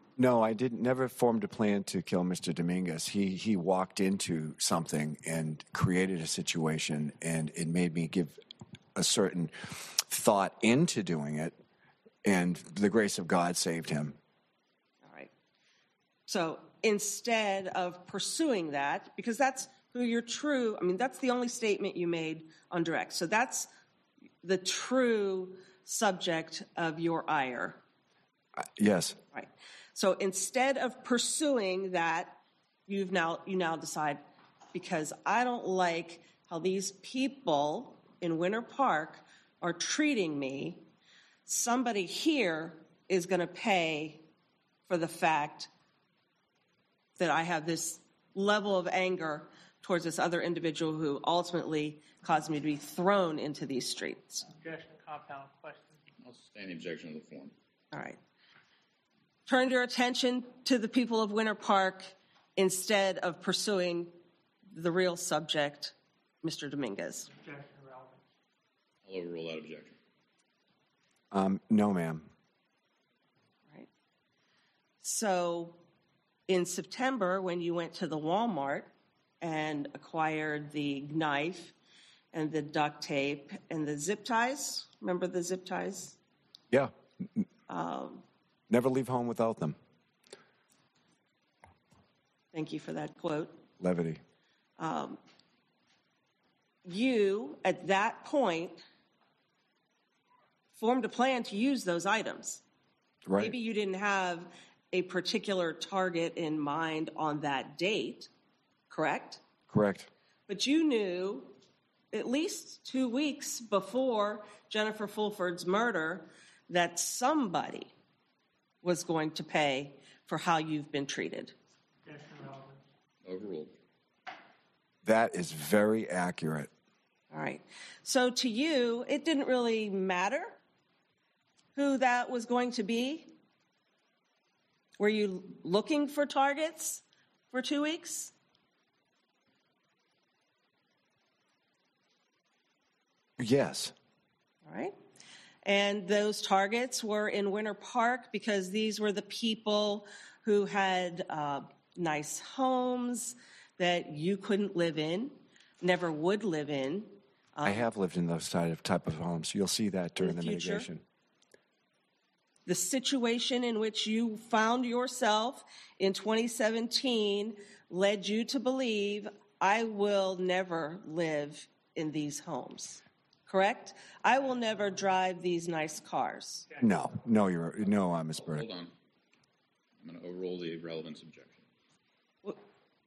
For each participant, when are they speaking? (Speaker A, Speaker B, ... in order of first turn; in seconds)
Speaker A: 0.2-8.4, 8.9-11.6, 12.2-14.2, 28.6-29.2, 71.3-72.3, 86.7-87.5, 88.7-89.8, 93.8-94.2, 103.3-103.5, 109.7-110.1, 125.0-126.7, 143.4-143.9, 157.6-161.0, 176.8-178.6
Speaker B: 15.0-15.3, 16.3-23.7, 24.4-27.8, 29.3-34.2, 34.7-40.9, 41.5-44.2, 44.9-45.7, 47.2-54.5, 57.9-58.2, 59.5-64.1, 64.7-67.3, 75.0-75.8, 76.5-81.7, 82.3-86.2, 87.7-88.2, 92.5-93.6, 94.8-95.2, 96.8-98.8, 100.8-102.6, 103.4-108.3, 108.9-109.4, 110.5-111.5, 112.1-117.9, 118.8-121.5, 127.3-130.6, 131.8-133.3, 135.0-138.3, 144.6-144.9, 145.6-157.9, 160.2-160.9, 162.7-176.7
Speaker C: 54.5-56.0, 67.3-68.2, 122.0-122.8
Speaker D: 56.2-57.5, 69.0-70.0, 123.2-123.7, 178.4-178.9, 180.0-181.6